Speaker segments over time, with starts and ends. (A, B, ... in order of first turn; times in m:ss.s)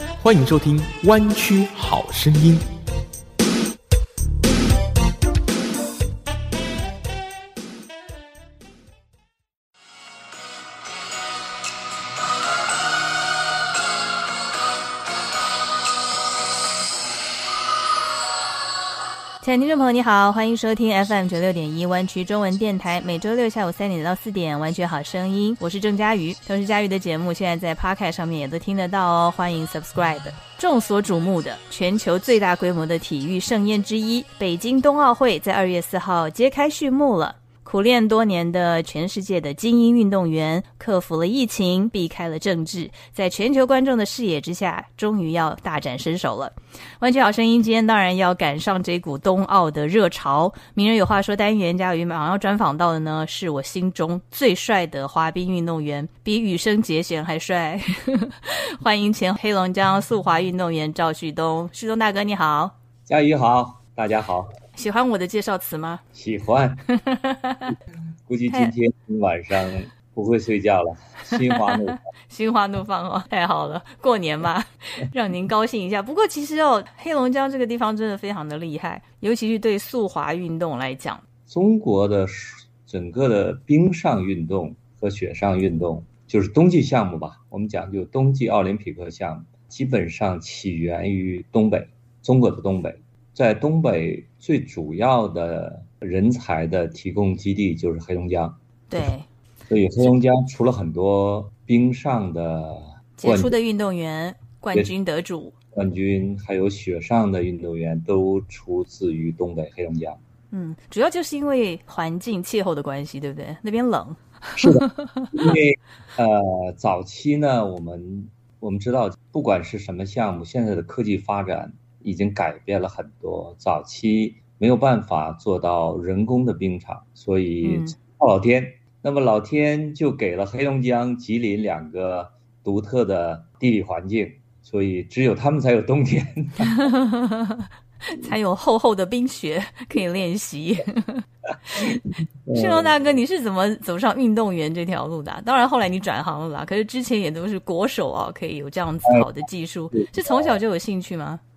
0:00.2-0:02.7 A
0:19.4-1:02.8 B
1:03.1-1:04.5 C
1:04.8-1:06.0 B
1:06.1-1:06.9 C
1:06.9-1:07.7 B
1:08.3-1:12.0 C
1:11.3-1:21.2 B
1:21.5-1:38.6 C
1:38.9-1:39.3 B
1:39.7-1:43.6 C
1:43.2-1:45.6 B
1:45.7-1:50.2 C
1:50.5-1:55.3 B
1:54.6-2:16.8 C
2:07.6-2:08.0 B
2:16.6-2:21.2 B
2:21.7-2:23.0 C
2:22.5-2:31.4 B
2:29.9-2:30.6 C